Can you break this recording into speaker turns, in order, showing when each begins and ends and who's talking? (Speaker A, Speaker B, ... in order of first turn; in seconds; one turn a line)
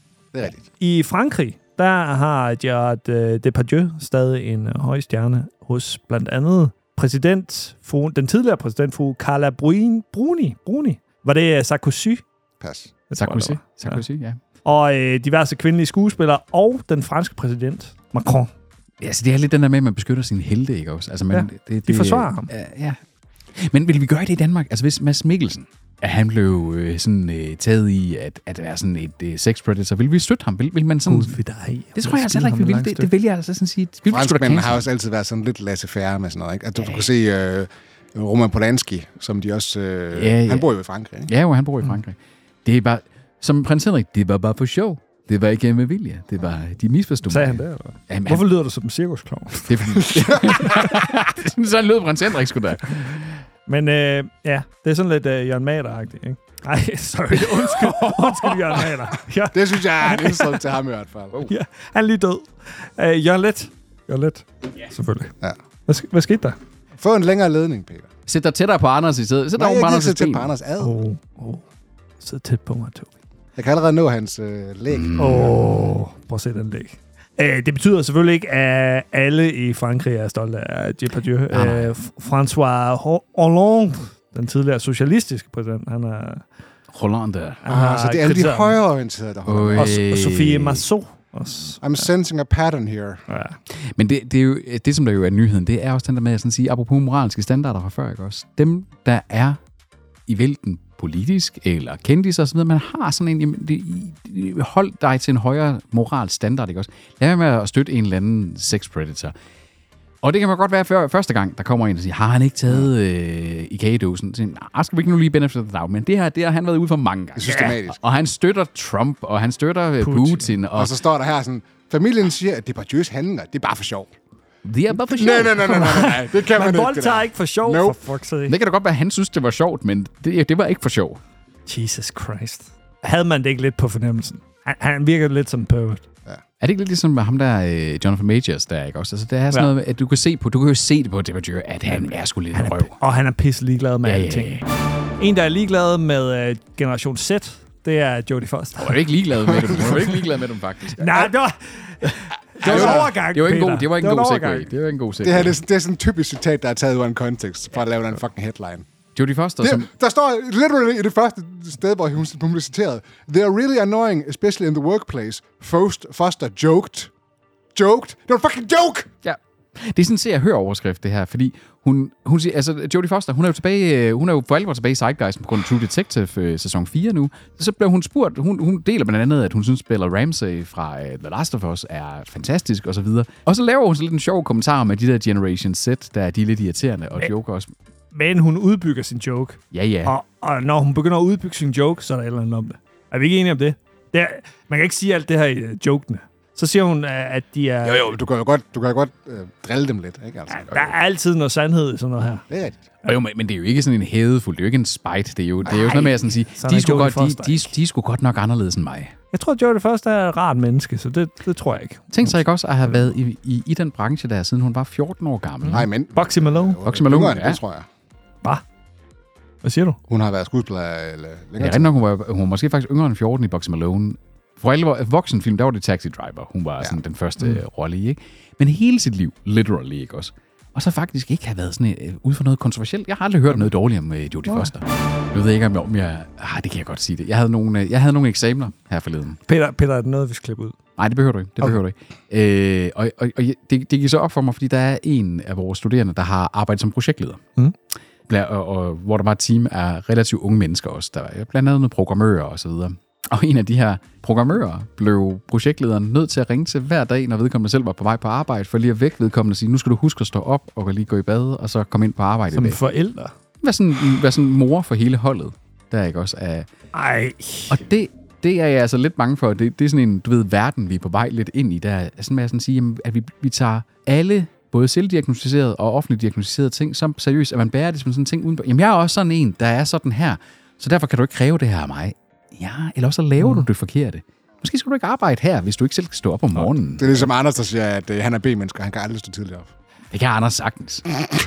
Speaker A: 0.6-12.2
Speaker B: 12.6-12.9
Speaker A: 13.1-14.0
Speaker C: 13.2-14.4
Speaker A: 14.7-18.5
Speaker C: 19.0-23.0
Speaker A: 21.3-22.5
Speaker C: 23.5-31.4
Speaker A: 31.1-33.1
Speaker C: 31.9-34.9
Speaker B: 34.1-41.3
Speaker C: 36.8-37.1
Speaker C: 40.1-40.7
Speaker C: 41.3-48.5
Speaker A: 47.3-49.8
Speaker C: 49.7-53.4
Speaker B: 50.0-50.9
Speaker A: 50.5-50.8
Speaker A: 53.7-60.6
Speaker C: 57.3-58.9
Speaker B: 59.5-61.4
Speaker A: 61.5-65.3
Speaker A: 65.9-66.6
Speaker B: 67.0-68.1
Speaker C: 68.3-70.5
Speaker B: 69.6-71.0
Speaker A: 70.8-71.7
Speaker A: 72.2-73.1
Speaker B: 73.6-75.5
Speaker C: 74.9-75.7
Speaker A: 75.2-86.5
Speaker C: 81.5-81.9
Speaker C: 86.9-87.6
Speaker A: 87.6-88.8
Speaker B: 87.7-90.0
Speaker C: 89.5-90.8
Speaker A: 89.8-92.0
Speaker B: 91.8-93.2
Speaker A: 93.3-93.6
Speaker C: 93.8-99.6
Speaker C: 100.3-109.3
Speaker C: 110.2-121.0
Speaker B: 117.4-118.0
Speaker A: 117.5-117.7
Speaker A: 120.0-120.5
Speaker B: 120.8-124.1
Speaker C: 124.7-125.8
Speaker B: 125.0-128.0
Speaker A: 125.6-128.6
Speaker C: 128.5-131.2
Speaker A: 131.7-136.0
Speaker C: 136.6-142.9
Speaker A: 141.9-144.7
Speaker C: 144.0-144.6
Speaker A: 145.2-149.1
Speaker C: 148.8-151.3
Speaker B: 149.6-149.9
Speaker A: 151.0-154.7
Speaker C: 152.0-155.6
Speaker B: 152.6-153.1
Speaker B: 155.2-158.8
Speaker C: 159.2-159.9
Speaker B: 159.6-167.1
Speaker B: 167.8-169.1
Speaker C: 169.2-187.7
Speaker A: 188.1-198.1
Speaker C: 189.7-190.2
Speaker B: 197.8-200.9
Speaker A: 200.5-202.4
Speaker B: 202.5-202.8
Speaker C: 203.0-209.1
Speaker A: 205.7-207.7
Speaker A: 209.3-212.3
Speaker C: 212.1-215.9
Speaker A: 215.6-216.8
Speaker B: 215.7-217.9
Speaker C: 216.8-217.6
Speaker A: 219.6-220.0
Speaker B: 220.1-221.9
Speaker C: 221.6-239.4
Speaker A: 234.5-234.7
Speaker A: 239.5-240.8
Speaker C: 241.0-247.4
Speaker C: 248.3-262.8
Speaker A: 262.5-263.3
Speaker C: 263.6-266.7
Speaker A: 266.9-267.8
Speaker C: 267.7-287.3
Speaker A: 283.4-283.7
Speaker B: 287.0-289.7
Speaker C: 290.1-291.1